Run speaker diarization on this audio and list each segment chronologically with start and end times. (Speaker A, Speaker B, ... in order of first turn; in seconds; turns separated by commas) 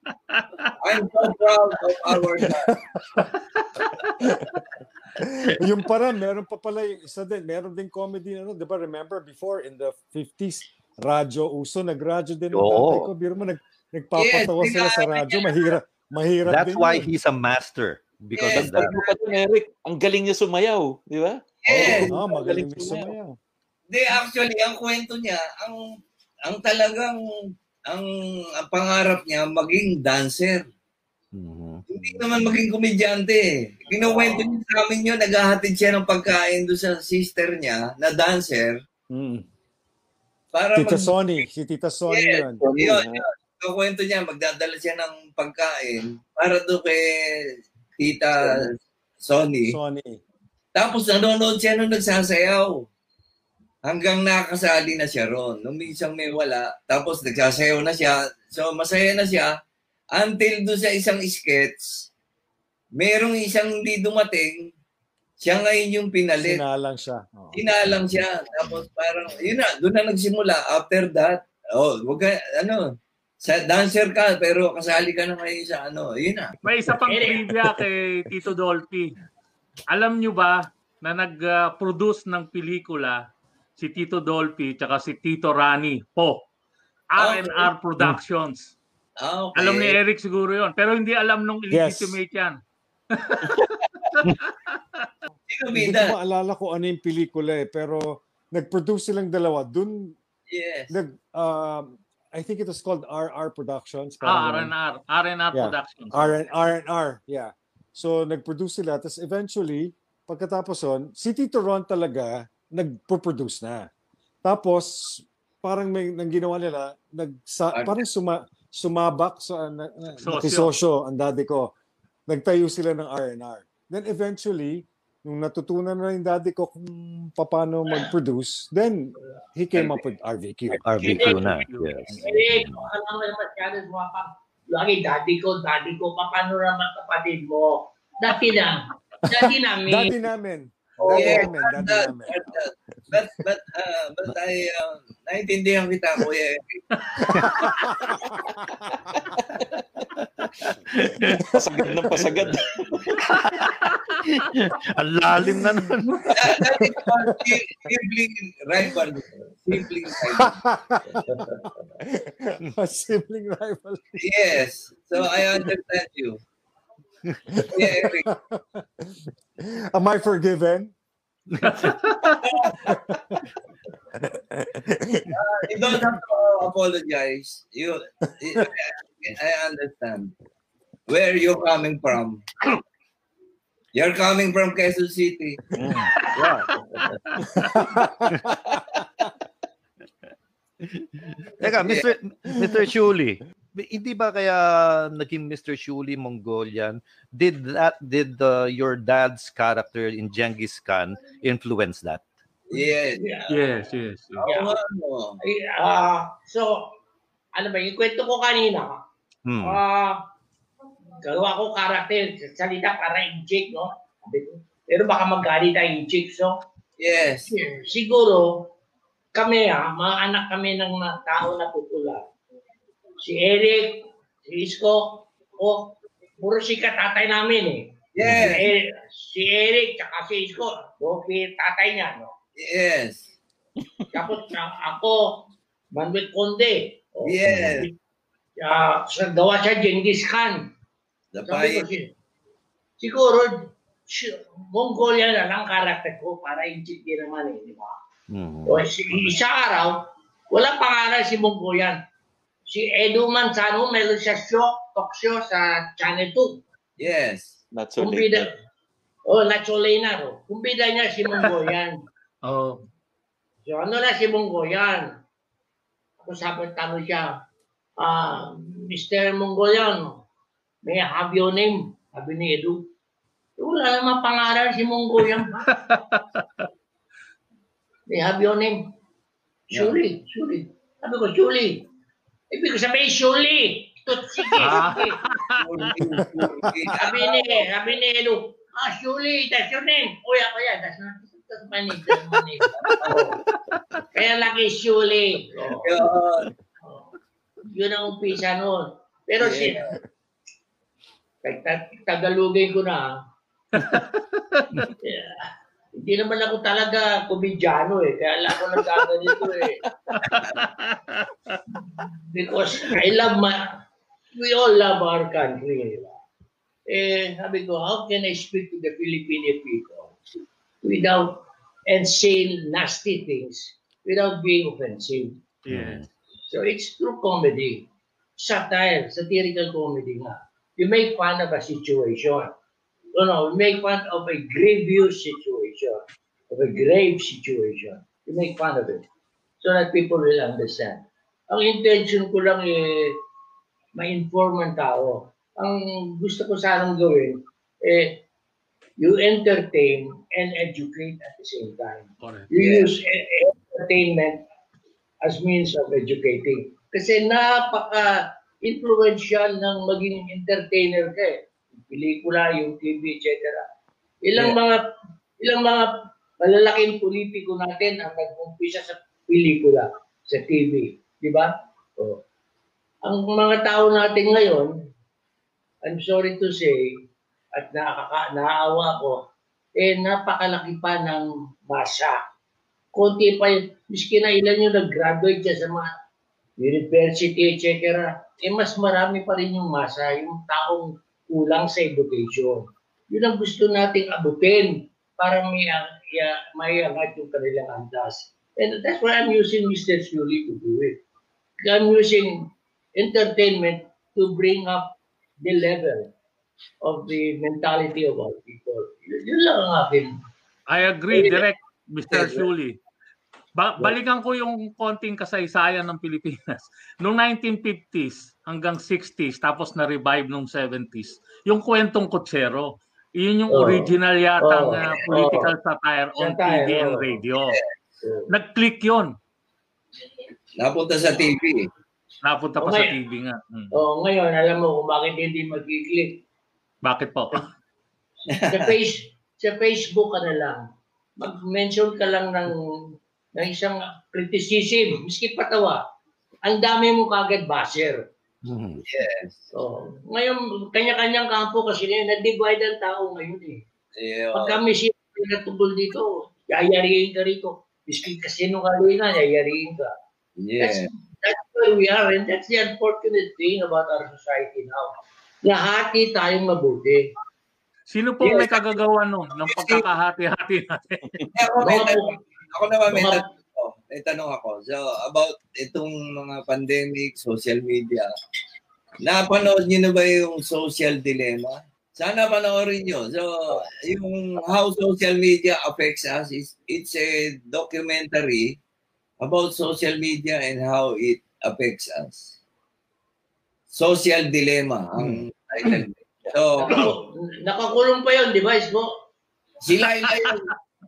Speaker A: 0.3-0.7, Speaker B: 0.8-2.7, Speaker C: 2.4-3.3, Speaker C: 4.2-4.6, Speaker C: 5.2-17.1, Speaker D: 12.5-13.1, Speaker B: 14.2-15.7, Speaker D: 16.5-18.9, Speaker B: 18.4-19.1, Speaker E: 18.5-23.1, Speaker B: 21.6-22.1, Speaker D: 21.7-22.0, Speaker C: 22.1-23.4, Speaker B: 23.9-25.8, Speaker B: 26.5-27.2, Speaker B: 27.9-30.7, Speaker D: 31.3-31.8, Speaker B: 31.9-38.8, Speaker F: 34.0-34.4, Speaker C: 39.1-39.5, Speaker B: 40.5-41.1, Speaker C: 40.7-42.6, Speaker B: 42.1-49.8, Speaker E: 42.6-43.2, Speaker C: 49.7-50.2, Speaker B: 50.8-52.9, Speaker B: 53.9-59.5, Speaker B: 60.1-62.1, Speaker B: 63.0-64.7, Speaker B: 65.4-66.6, Speaker C: 66.4-67.6, Speaker B: 67.5-76.5, Speaker A: 76.6-79.1, Speaker F: 77.0-77.4, Speaker A: 79.9-83.2, Speaker A: 83.8-86.4, Speaker A: 87.1-88.7, Speaker B: 87.2-87.7, Speaker B: 89.2-90.0, Speaker A: 89.5-92.6, Speaker C: 91.7-92.2, Speaker A: 93.1-95.0, Speaker B: 95.5-96.1, Speaker C: 95.7-100.1, Speaker B: 100.5-101.0, Speaker C: 100.9-104.7, Speaker A: 104.2-106.4, Speaker C: 105.5-113.9, Speaker C: 114.5-121.7, Speaker A: 120.2-120.7, Speaker C: 122.3-130.8, Speaker D: 130.8-132.9, Speaker E: 131.0-131.4, Speaker A: 131.0-132.2, Speaker F: 131.1-140.1, Speaker C: 139.4-143.4, Speaker F: 141.0-141.5, Speaker B: 141.1-146.9, Speaker A: 147.0-147.9, Speaker C: 147.2-149.1, Speaker D: 150.2-151.4, Speaker C: 151.2-152.2, Speaker E: 151.5-153.2, Speaker D: 153.3-156.4, Speaker C: 155.4-156.0, Speaker B: 156.3-160.6, Speaker C: 156.8-157.6, Speaker C: 160.1-161.4, Speaker F: 161.1-161.8, Speaker C: 162.0-164.4, Speaker B: 164.2-166.4, Speaker C: 165.2-165.6, Speaker C: 167.5-170.9, Speaker B: 167.7-168.3, Speaker D: 171.5-171.8, Speaker A: 171.6-172.4, Speaker C: 172.8-173.4, Speaker C: 174.1-176.1, Speaker B: 175.3-180.3, Speaker B: 181.1-182.6, Speaker B: 183.9-185.6, Speaker D: 185.8-186.7, Speaker F: 186.9-187.2, Speaker A: 187.3-187.8, Speaker C: 187.6-188.7, Speaker D: 190.8-202.2, Speaker B: 191.8-192.1, Speaker C: 192.5-192.9, Speaker B: 202.7-203.2, Speaker F: 202.7-203.8, Speaker A: 203.5-204.4, Speaker F: 204.4-204.8, Speaker B: 204.4-205.4, Speaker F: 205.4-206.9, Speaker F: 207.6-208.9, Speaker D: 209.4-209.8, Speaker F: 209.6-210.2, Speaker F: 211.2-216.5, Speaker B: 217.0-217.5, Speaker F: 217.5-218.6, Speaker F: 219.4-222.2, Speaker F: 223.2-232.3, Speaker B: 228.2-228.7, Speaker D: 228.2-228.6, Speaker B: 232.6-233.2, Speaker F: 234.1-237.9, Speaker B: 237.2-237.9, Speaker D: 237.4-237.9, Speaker F: 238.6-240.6, Speaker B: 241.3-241.9, Speaker F: 241.5-242.1, Speaker F: 243.0-243.5, Speaker F: 244.1-247.9, Speaker D: 248.3-249.4, Speaker F: 248.7-252.0, Speaker F: 252.7-256.6, Speaker B: 257.0-257.6, Speaker E: 257.7-258.5, Speaker F: 258.0-258.5, Speaker F: 259.3-262.0, Speaker A: 262.4-262.8, Speaker F: 263.7-265.2, Speaker F: 266.2-267.3, Speaker F: 268.0-270.2, Speaker F: 270.8-272.9, Speaker F: 273.6-275.6, Speaker A: 275.7-276.6, Speaker F: 278.1-278.9, Speaker F: 279.7-281.9, Speaker B: 279.7-280.0, Speaker F: 282.5-285.2, Speaker A: 284.5-285.6, Speaker D: 284.6-284.9, Speaker B: 285.5-287.7, Speaker C: 286.2-286.9, Speaker F: 286.9-293.4, Speaker B: 292.8-293.2, Speaker F: 294.1-295.9, Speaker B: 295.8-296.5, Speaker F: 296.8-297.1, Speaker F: 297.7-299.8, Speaker B: 299.4-299.9, Speaker F: 301.4-303.1, Speaker A: 303.7-304.9, Speaker F: 305.0-305.4, Speaker F: 305.9-309.8, Speaker A: 310.1-311.6, Speaker F: 312.0-313.8, Speaker F: 314.3-316.2, Speaker F: 316.9-320.2, Speaker F: 320.8-325.4, Speaker A: 325.6-326.0, Speaker D: 325.7-326.1, Speaker F: 326.5-327.9, Speaker F: 328.4-332.5, Speaker F: 333.1-339.0, Speaker F: 339.6-343.2, Speaker F: 343.9-348.2, Speaker F: 349.0-354.4, Speaker A: 352.2-352.5, Speaker B: 352.6-352.9, Speaker F: 355.2-363.6, Speaker F: 364.2-364.8, Speaker F: 365.4-372.2, Speaker F: 373.0-374.7, Speaker F: 375.9-376.8, Speaker F: 377.6-379.2, Speaker F: 379.8-382.2, Speaker F: 382.9-385.9, Speaker F: 386.6-401.0, Speaker F: 401.6-406.1, Speaker F: 406.8-410.1, Speaker A: 410.7-412.8, Speaker F: 411.1-411.4, Speaker B: 412.2-412.4, Speaker A: 413.6-427.6, Speaker F: 423.5-425.5, Speaker B: 424.8-425.4, Speaker F: 426.2-427.2, Speaker F: 428.0-428.3, Speaker A: 428.3-429.1, Speaker B: 430.6-431.7, Speaker A: 432.2-433.7, Speaker F: 432.6-432.9, Speaker F: 433.7-436.2, Speaker A: 436.8-437.5, Speaker B: 438.3-438.7, Speaker F: 438.5-440.6, Speaker F: 441.2-442.5, Speaker F: 443.4-445.8, Speaker F: 446.4-448.0, Speaker D: 448.4-448.8, Speaker B: 448.9-449.4, Speaker F: 449.5-453.6, Speaker B: 453.9-454.6, Speaker F: 454.3-459.9, Speaker B: 460.4-460.9, Speaker F: 460.6-467.0, Speaker A: 467.9-471.2, Speaker B: 468.2-468.8, Speaker B: 469.5-469.9, Speaker B: 471.3-478.1, Speaker F: 471.6-472.2, Speaker F: 472.9-473.2, Speaker B: 479.0-488.6, Speaker B: 489.2-492.3, Speaker B: 493.7-496.9, Speaker F: 496.6-498.9, Speaker B: 499.6-500.5, Speaker A: 500.2-500.5